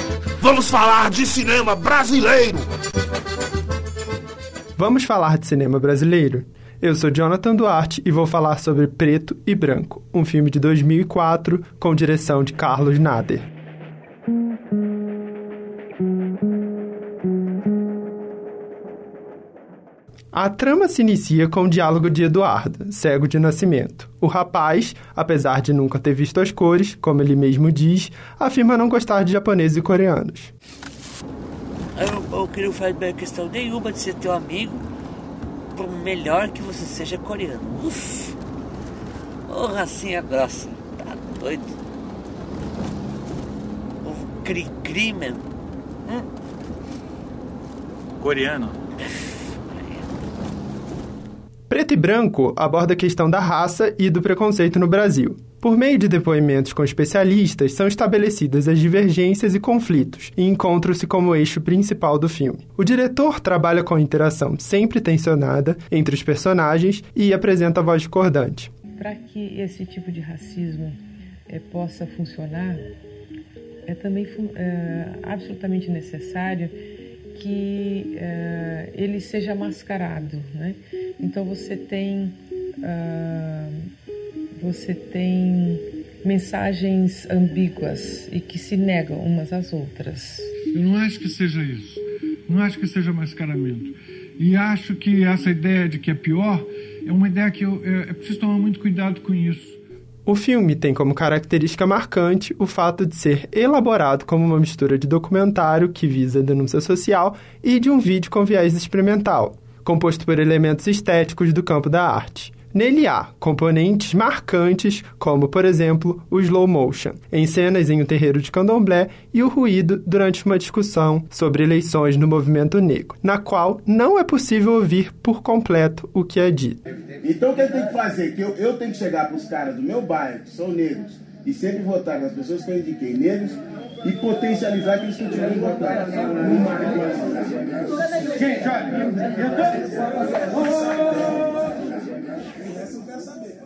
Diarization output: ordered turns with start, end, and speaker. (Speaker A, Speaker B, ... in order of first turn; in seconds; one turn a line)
Speaker A: 0.5-2.6
Speaker B: 4.8-13.4
Speaker B: 20.3-30.5
Speaker C: 32.0-34.9
Speaker C: 35.7-38.4
Speaker C: 39.5-41.7
Speaker C: 44.0-45.5
Speaker B: 51.7-68.7
Speaker D: 69.0-72.8
Speaker D: 73.9-76.8
Speaker D: 77.3-83.9
Speaker D: 84.6-90.5
Speaker E: 90.7-99.8
Speaker B: 100.3-126.8
Speaker F: 127.2-140.9
Speaker F: 142.8-143.4